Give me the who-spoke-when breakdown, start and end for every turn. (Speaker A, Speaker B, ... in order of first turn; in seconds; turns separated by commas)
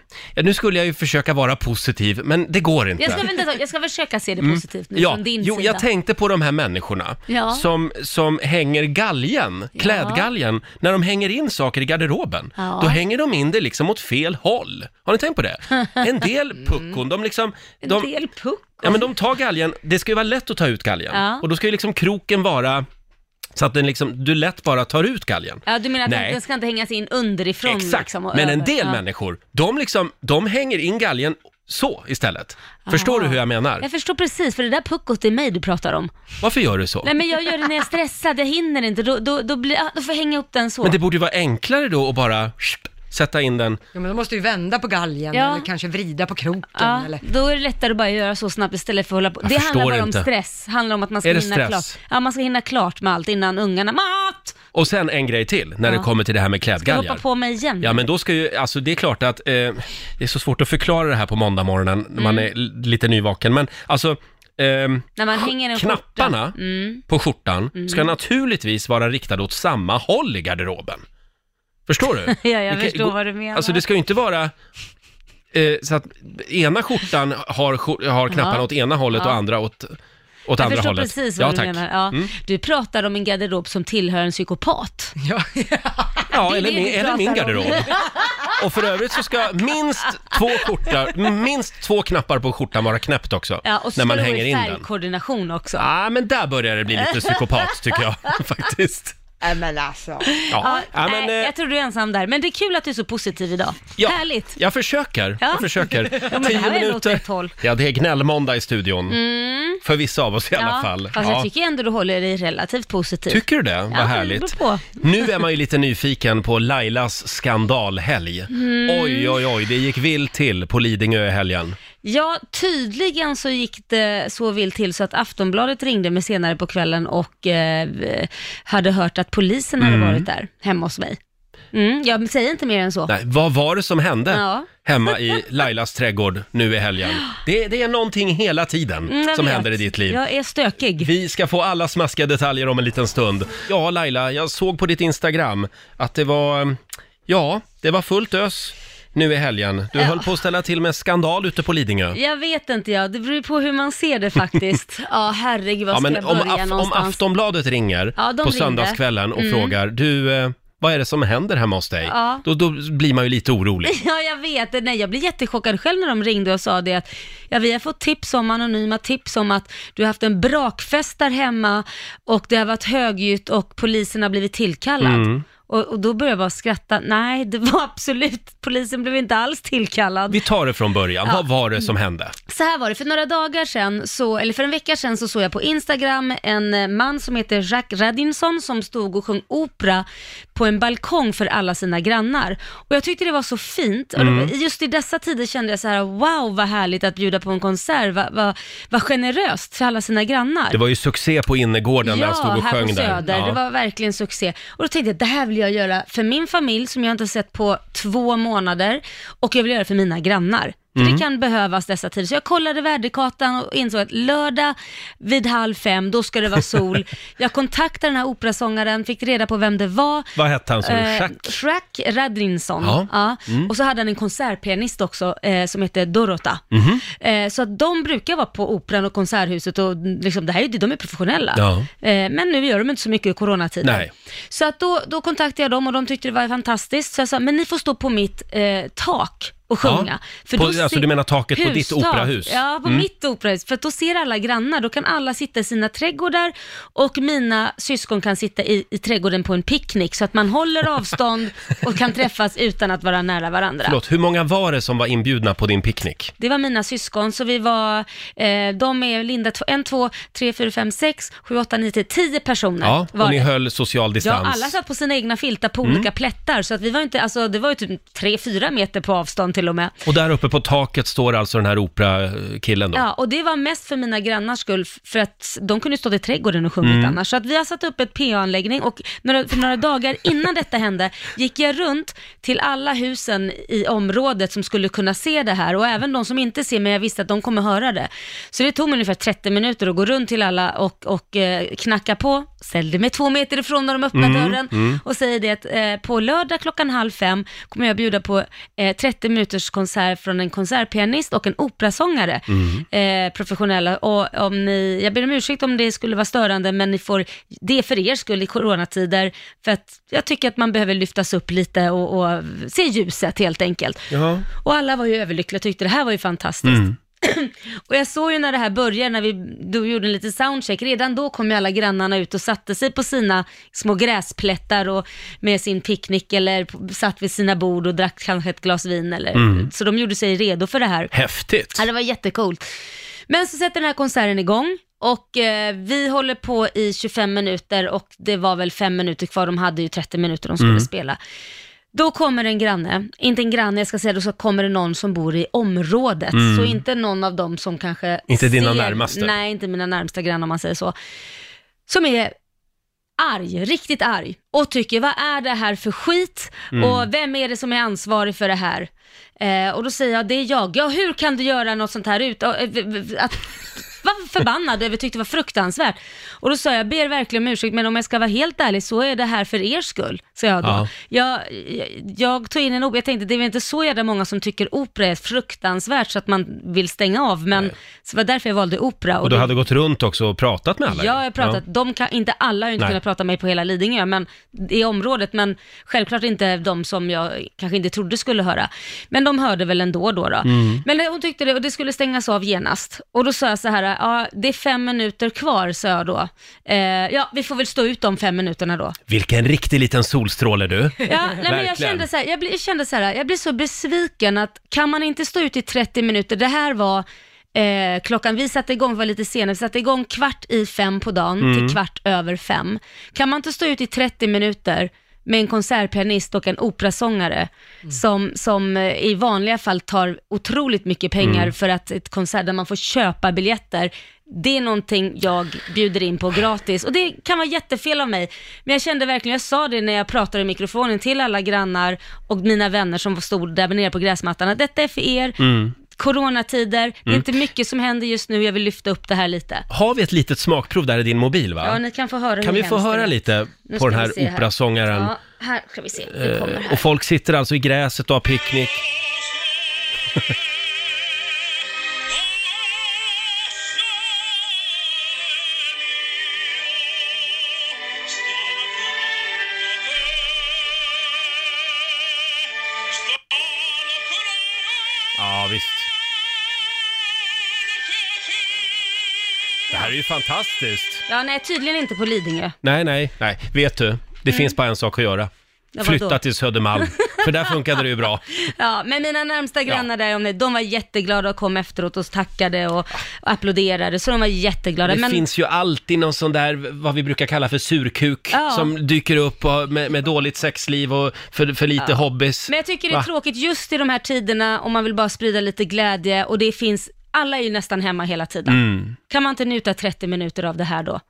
Speaker A: 0.3-3.3, Speaker B: 3.0-5.8, Speaker A: 4.4-18.1, Speaker B: 7.3-7.7, Speaker B: 9.8-10.3, Speaker B: 12.6-13.0, Speaker B: 17.8-19.1, Speaker A: 18.8-22.9, Speaker B: 21.1-21.5, Speaker A: 23.6-26.4, Speaker B: 25.7-29.0, Speaker A: 27.6-33.9, Speaker B: 32.9-36.1, Speaker A: 36.4-37.1, Speaker B: 37.0-41.0, Speaker A: 40.8-43.8, Speaker C: 44.0-47.2, Speaker B: 45.3-45.7, Speaker B: 46.8-54.6, Speaker A: 49.4-50.3, Speaker A: 51.2-52.0, Speaker A: 54.7-57.2, Speaker B: 56.8-58.0, Speaker A: 57.8-66.6, Speaker B: 62.2-62.5, Speaker B: 65.2-67.0, Speaker A: 67.1-71.0, Speaker B: 67.8-68.1, Speaker A: 71.9-74.5, Speaker B: 72.3-73.8, Speaker A: 75.5-82.3, Speaker B: 78.3-79.4, Speaker B: 80.6-85.1, Speaker C: 85.2-86.3, Speaker A: 86.3-87.9, Speaker B: 86.5-88.2, Speaker A: 88.6-94.9, Speaker B: 93.7-95.8, Speaker A: 95.8-99.2, Speaker C: 99.4-100.3, Speaker B: 100.3-104.6, Speaker A: 100.5-101.5, Speaker A: 104.0-109.2, Speaker B: 105.4-107.5, Speaker B: 109.1-109.8, Speaker A: 109.8-111.5, Speaker B: 110.6-115.0, Speaker A: 113.3-121.8, Speaker B: 118.5-119.4, Speaker B: 122.0-131.2, Speaker A: 129.8-130.3, Speaker B: 131.7-133.1, Speaker A: 133.1-140.2, Speaker B: 134.3-134.7, Speaker B: 139.1-141.1, Speaker A: 141.0-152.2, Speaker B: 150.0-150.3, Speaker B: 152.2-157.2, Speaker A: 155.9-164.0, Speaker B: 158.2-159.8, Speaker B: 162.1-162.4, Speaker B: 163.9-180.4, Speaker A: 175.0-175.4, Speaker A: 180.3-182.3, Speaker B: 181.2-181.9, Speaker B: 182.5-200.8, Speaker A: 194.2-194.5, Speaker A: 200.7-203.6, Speaker B: 202.0-254.0, Speaker A: 211.0-211.2, Speaker A: 220.4-221.5, Speaker A: 222.8-223.7, Speaker A: 226.7-227.0, Speaker A: 231.6-231.9, Speaker A: 233.8-234.1, Speaker A: 239.8-243.1, Speaker A: 253.8-256.3, Speaker B: 256.4-263.5, Speaker A: 262.8-264.7, Speaker B: 264.2-269.9, Speaker A: 270.1-273.0, Speaker B: 272.9-331.1, Speaker A: 276.8-277.2, Speaker A: 294.1-295.0, Speaker A: 302.5-302.9, Speaker A: 314.1-314.4, Speaker A: 316.7-316.9, Speaker A: 329.4-329.7, Speaker A: 331.1-331.8, Speaker B: 331.8-332.7, Speaker B: 333.3-341.2, Speaker A: 340.6-340.9, Speaker B: 341.9-350.9, Speaker A: 346.3-346.8, Speaker A: 348.3-349.3, Speaker B: 351.9-352.3, Speaker B: 353.2-379.5, Speaker A: 356.7-357.1, Speaker A: 370.6-370.9, Speaker A: 379.2-381.6, Speaker B: 380.9-399.0, Speaker A: 390.4-390.8, Speaker A: 399.1-402.1, Speaker B: 401.1-439.6, Speaker A: 411.4-411.8, Speaker A: 421.2-421.5, Speaker A: 435.4-435.7, Speaker A: 439.7-441.8, Speaker B: 441.6-446.8, Speaker A: 442.4-445.1, Speaker A: 446.1-448.9, Speaker A: 465.2-465.9, Speaker A: 469.7-471.0, Speaker B: 471.1-472.6, Speaker A: 472.6-475.3, Speaker B: 474.3-474.6, Speaker B: 475.8-476.2, Speaker A: 475.8-478.2, Speaker B: 476.8-477.5, Speaker B: 478.4-485.2, Speaker A: 484.9-493.1, Speaker B: 488.3-488.7, Speaker B: 491.8-501.0, Speaker A: 498.5-498.9